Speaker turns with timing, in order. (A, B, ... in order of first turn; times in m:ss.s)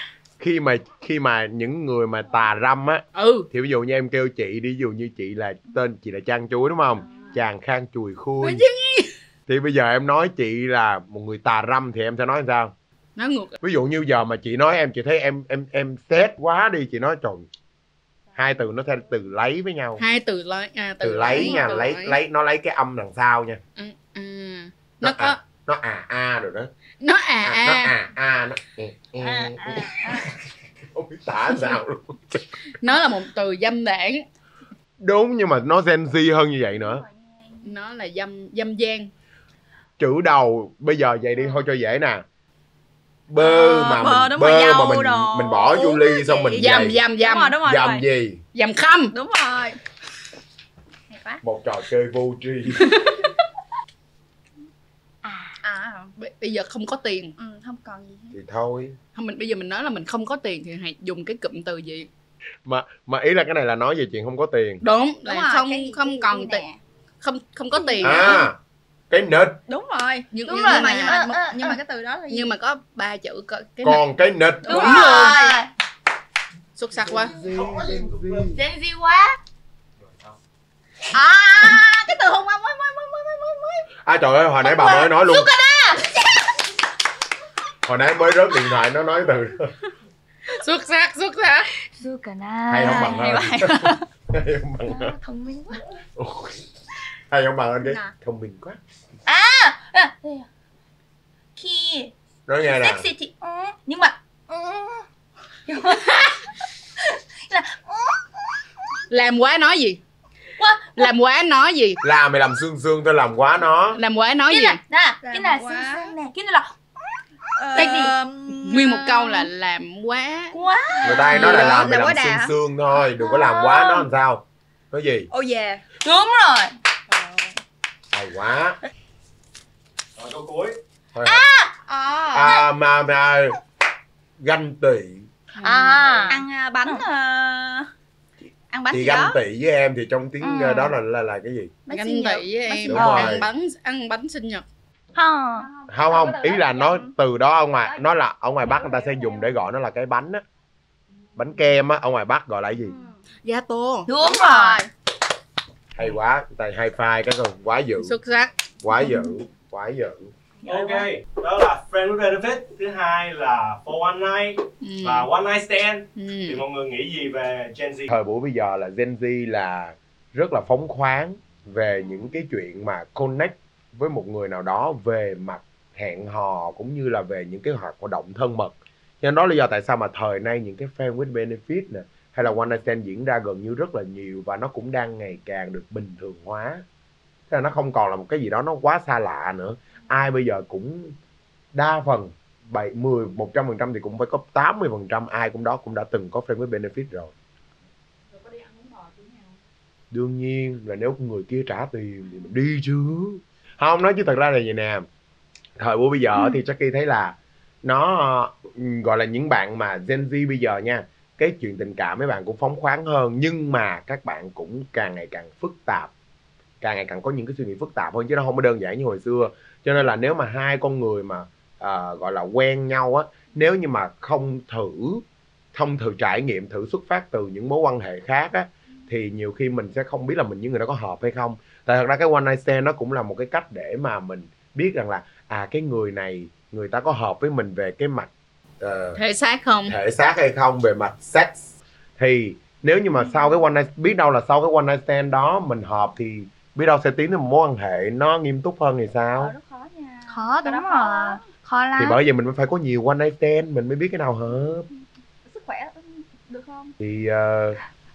0:00.4-0:08.6 A
0:03.2-0:03.5 B
0:08.4-0:09.1 B
0:09.5-0:12.7 A
0:13.2-0:13.6 B
0:13.6-0:17.5 A
0:18.4-0:20.0 A
0:20.0-0:22.2 B
0:21.0-0:23.6 A
0:23.8-0:25.4 B
0:25.0-0:26.7 A
0:27.0-0:28.0 B
0:27.4-0:30.2 A
0:29.2-0:30.2 C
0:30.9-0:32.6 A
0:32.8-0:34.2 B
0:35.0-0:37.1 A
0:37.6-0:39.1 B
0:40.0-0:42.2 A
0:43.3-0:47.0 A
0:43.4-0:48.0 D
0:46.6-0:47.6 B
0:47.6-0:48.4 A
0:48.5-0:49.1 B
0:49.1-0:49.8 D
0:51.1-0:51.4 D
0:51.4-0:53.0 A
0:52.8-0:53.2 B
0:55.2-0:55.6 C
0:55.6-0:56.1 D
0:56.2-0:57.4 B
0:57.4-0:58.3 D
0:58.3-0:59.0 A
0:59.2-1:02.1 B
1:02.7-1:04.8 A
1:04.8-1:06.6 B
1:05.2-1:06.8 D
1:07.2-1:08.4 B
1:07.8-1:08.5 D
1:08.0-1:08.6 A
1:09.1-1:09.6 A
1:09.7-1:12.5 D
1:10.3-1:11.2 B
1:10.5-1:11.8 C
1:12.3-1:14.0 B
1:13.8-1:14.8 A
1:14.6-1:15.5 D
1:14.7-1:15.7 C
1:14.7-1:15.6 B
1:16.8-1:17.3 B
1:17.0-1:18.6 A
1:17.5-1:19.4 C
1:21.1-1:23.9 D
1:24.0-1:25.5 A
1:24.6-1:26.3 C
1:27.8-1:29.7 A
1:30.5-1:31.7 B
1:31.9-1:33.4 C
1:32.7-1:35.2 A
1:32.8-1:34.0 D
1:34.8-1:35.8 C
1:36.2-1:36.6 A
1:37.3-1:38.8 A
1:39.3-1:40.5 C
1:41.6-1:45.1 C
1:42.5-1:43.1 A
1:45.7-1:48.4 C
1:49.1-1:50.0 B
1:50.6-1:51.1 C
1:51.0-1:52.0 B
1:52.0-1:54.0 A
1:53.9-1:54.8 B
1:54.5-1:56.7 C
1:55.2-1:56.2 D
1:57.6-1:58.6 D
1:57.8-1:59.5 C
1:58.6-2:00.6 B
2:00.5-2:01.6 C
2:01.0-2:02.5 D
2:01.0-2:05.3 A
2:03.2-2:04.1 C
2:05.3-2:05.8 D
2:06.0-2:06.7 C
2:07.1-2:07.5 D
2:08.1-2:08.8 A
2:10.2-2:10.8 E
2:11.1-2:11.5 A
2:11.2-2:12.6 D
2:12.3-2:13.6 A
2:14.4-2:15.3 A
2:15.6-2:17.0 C
2:15.9-2:17.9 D
2:18.7-2:19.4 D
2:18.9-2:21.7 A
2:20.4-2:21.0 C
2:21.9-2:22.5 D
2:21.9-2:24.6 B
2:22.7-2:23.5 A
2:22.9-2:23.4 C
2:25.1-2:25.7 C
2:25.6-2:27.1 D
2:25.9-2:30.4 A
2:28.7-2:29.3 D
2:31.4-2:33.0 A
2:33.4-2:34.8 B
2:34.1-2:34.8 C
2:34.2-2:34.6 D
2:36.0-2:38.2 A
2:38.0-2:38.5 B
2:38.8-2:40.3 A
2:40.6-2:41.1 C
2:40.6-2:48.1 E
2:44.8-2:45.3 B
2:46.2-2:46.6 B
2:48.1-3:06.8 A
3:07.5-3:11.2 A
3:11.8-3:17.3 A
3:18.5-3:19.4 D
3:20.1-3:25.1 A
3:25.8-3:36.1 A
3:36.8-3:45.2 A
3:45.7-3:59.2 A
3:59.2-4:00.0 B
3:59.9-4:09.5 A
4:09.4-4:11.4 D
4:10.3-4:12.2 C
4:12.0-4:14.9 A
4:15.5-4:16.9 D
4:17.0-4:17.8 A